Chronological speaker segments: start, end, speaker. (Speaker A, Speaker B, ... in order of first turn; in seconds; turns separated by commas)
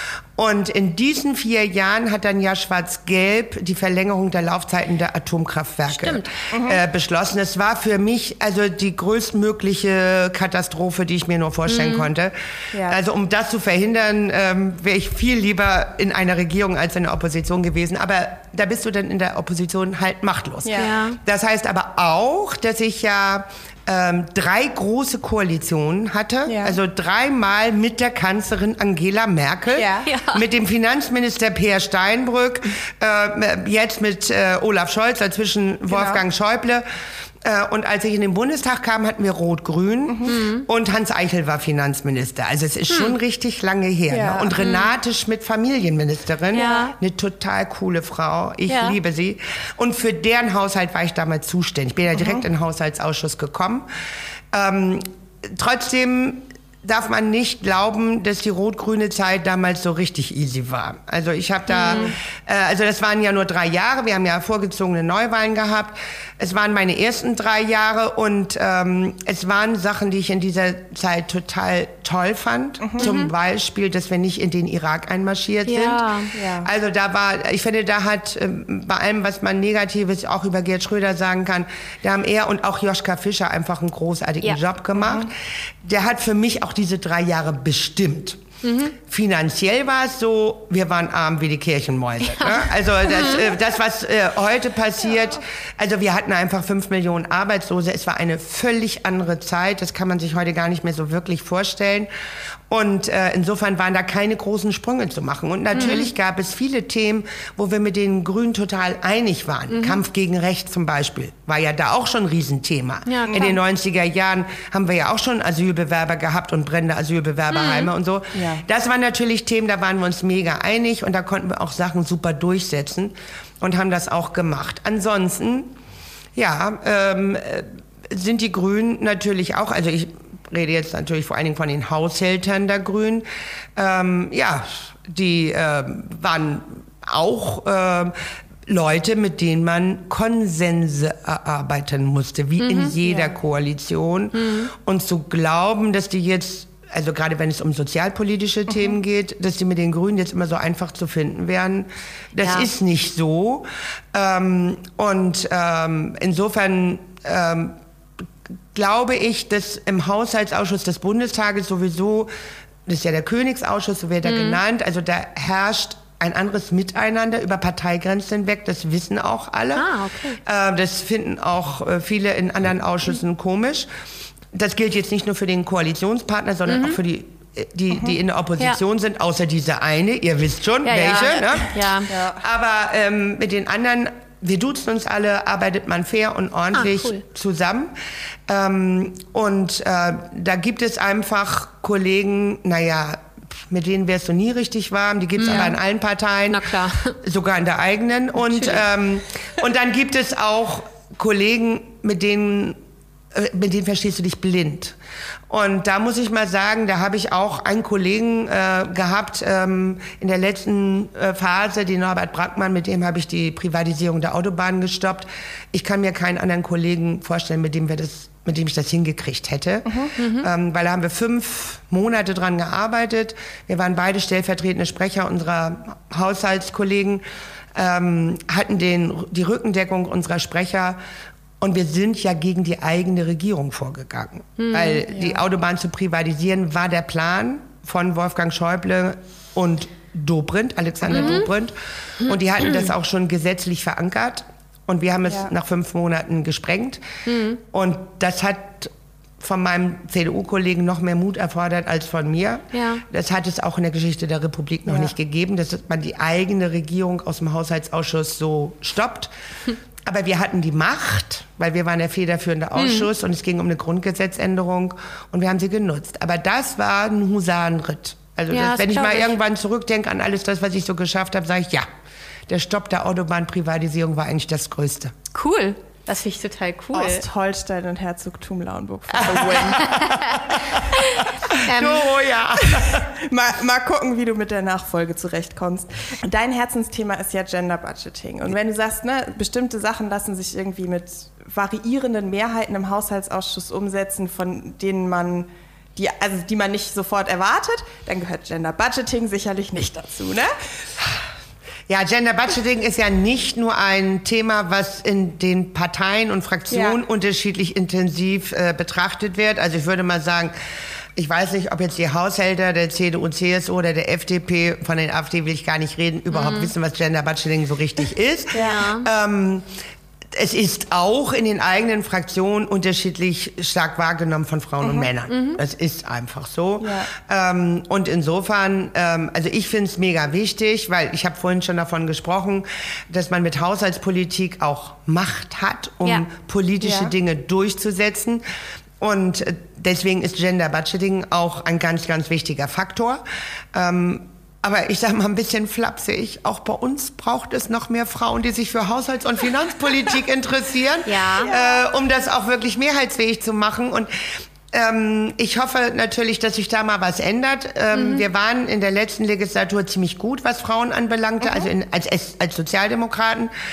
Speaker A: 0.4-36.8, Speaker B: 5.9-6.3, Speaker C: 6.5-6.8, Speaker B: 11.7-12.1, Speaker C: 12.7-13.0, Speaker C: 20.6-20.9, Speaker B: 20.7-21.2, Speaker C: 26.5-26.8, Speaker C: 29.7-30.1, Speaker B: 30.1-30.4, Speaker C: 35.9-36.2, Speaker A: 37.4-53.9, Speaker C: 40.1-40.4, Speaker B: 40.3-40.7, Speaker B: 42.9-43.1, Speaker C: 44.1-44.5, Speaker B: 44.6-44.9, Speaker B: 46.5-47.0, Speaker C: 46.5-46.9, Speaker B: 48.7-49.0, Speaker C: 52.1-52.5, Speaker A: 54.5-76.0, Speaker B: 61.7-62.1, Speaker C: 61.9-62.1, Speaker C: 72.8-73.1, Speaker B: 73.0-73.3, Speaker B: 75.7-76.3, Speaker C: 76.3-76.7, Speaker A: 76.6-88.4, Speaker C: 85.0-85.3, Speaker B: 88.6-89.0, Speaker A: 89.0-102.1, Speaker B: 92.3-93.5, Speaker A: 102.7-125.7, Speaker B: 105.7-106.1, Speaker B: 109.7-110.0, Speaker B: 113.1-113.6, Speaker C: 113.3-113.6, Speaker B: 117.5-117.9, Speaker C: 118.3-118.6, Speaker A: 126.4-133.2, Speaker A: 133.8-138.2, Speaker A: 138.7-157.8, Speaker B: 142.6-143.0, Speaker C: 143.1-143.3, Speaker B: 144.3-144.7, Speaker B: 152.4-152.7, Speaker A: 158.7-162.3, Speaker A: 162.9-169.9, Speaker B: 164.2-164.6, Speaker B: 169.8-170.4, Speaker A: 170.4-173.9, Speaker A: 174.5-187.9, Speaker B: 176.7-177.0, Speaker B: 180.8-182.1, Speaker C: 182.1-182.4, Speaker B: 186.7-187.2, Speaker A: 188.5-202.8, Speaker B: 195.4-195.8, Speaker B: 196.5-197.2, Speaker B: 198.5-198.8, Speaker A: 203.3-205.0, Speaker A: 205.5-227.2, Speaker C: 219.9-220.1, Speaker B: 220.2-220.5, Speaker A: 227.8-231.0, Speaker A: 231.6-247.0, Speaker B: 234.6-235.0, Speaker C: 235.1-235.4, Speaker B: 241.1-241.5, Speaker B: 242.3-242.8, Speaker B: 247.2-247.6, Speaker A: 247.6-259.3, Speaker B: 252.7-253.0, Speaker C: 254.9-255.1, Speaker A: 260.1-271.9, Speaker B: 262.8-263.1, Speaker B: 268.5-269.3, Speaker A: 272.5-275.1, Speaker B: 275.3-277.2, Speaker C: 276.9-280.8, Speaker A: 279.1-280.9, Speaker B: 279.8-280.4, Speaker B: 281.0-282.1, Speaker A: 281.5-283.1, Speaker C: 282.8-300.5, Speaker A: 301.9-310.5, Speaker C: 306.7-307.0, Speaker A: 311.2-319.7, Speaker B: 316.3-316.7, Speaker C: 318.5-318.8, Speaker B: 318.6-319.1, Speaker A: 320.3-338.4, Speaker C: 324.8-325.1, Speaker B: 325.3-325.6, Speaker C: 326.8-327.1, Speaker C: 336.8-337.1, Speaker A: 339.0-343.2, Speaker A: 343.7-363.5, Speaker B: 351.1-351.5, Speaker C: 351.4-351.8, Speaker B: 357.9-358.3, Speaker C: 361.4-361.7